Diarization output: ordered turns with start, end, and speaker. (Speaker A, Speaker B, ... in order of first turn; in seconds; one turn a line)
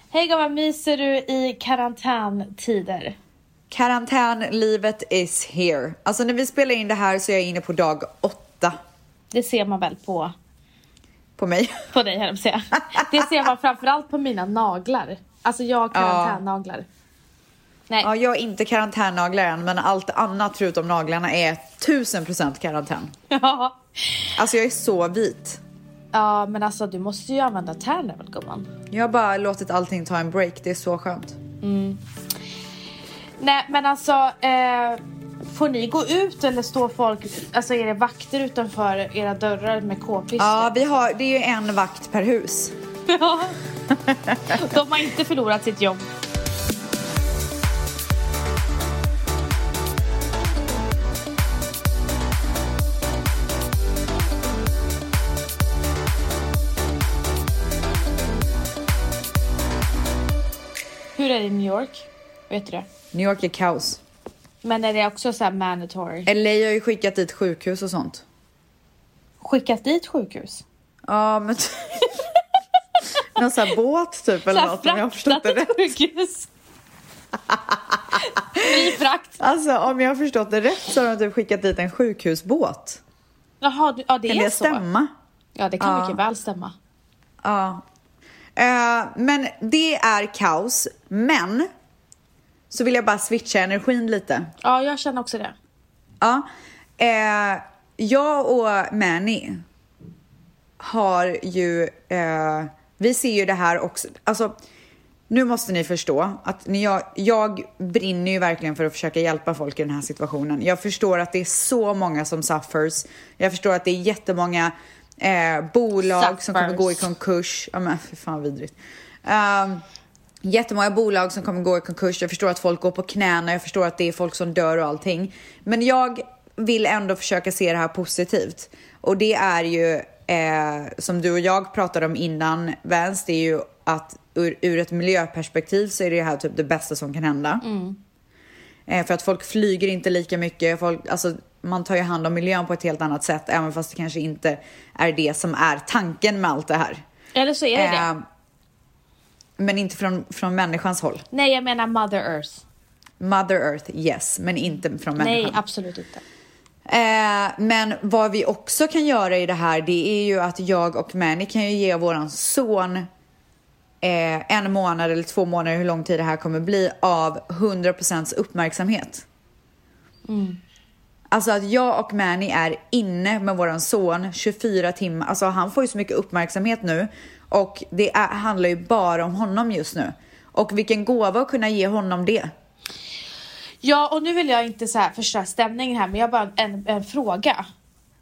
Speaker A: 0.1-3.1
Speaker B: 3.7-8.8
Speaker A: 9.3-10.3
Speaker B: 11.4-11.9
Speaker A: 11.9-16.9
Speaker B: 15.9-16.4
Speaker B: 18.0-23.1
Speaker A: 23.3-24.3
Speaker B: 24.4-25.6
Speaker A: 26.1-28.7
Speaker B: 28.9-31.4
Speaker A: 31.6-32.0
Speaker A: 33.4-40.8
Speaker B: 40.4-42.7
Speaker A: 43.1-43.6
Speaker B: 43.9-44.6
Speaker A: 44.5-46.0
Speaker A: 61.1-62.9
Speaker B: 63.1-64.0
Speaker A: 64.6-66.3
Speaker B: 66.3-68.2
Speaker A: 69.4-70.6
Speaker B: 71.1-72.1
Speaker B: 73.3-75.7
Speaker A: 74.5-76.5
Speaker B: 77.5-83.0
Speaker A: 78.3-79.4
Speaker A: 83.6-84.8
Speaker B: 84.3-85.1
Speaker A: 85.5-86.7
Speaker B: 85.8-86.2
Speaker B: 87.4-87.8
Speaker B: 88.5-91.7
Speaker B: 92.7-94.5
Speaker A: 94.6-95.5
Speaker B: 97.0-99.6
Speaker B: 100.8-104.5
Speaker B: 105.3-119.8
Speaker A: 116.1-117.0
Speaker B: 120.4-137.6
Speaker A: 137.6-138.0
Speaker B: 138.9-147.0
Speaker A: 147.3-148.1
Speaker B: 147.7-148.2
Speaker B: 149.6-151.2
Speaker A: 151.3-152.6
Speaker B: 153.2-155.6
Speaker A: 155.2-156.2
Speaker B: 156.9-163.1
Speaker B: 164.0-169.2
Speaker A: 170.3-170.6
Speaker B: 171.3-182.5
Speaker A: 183.8-187.7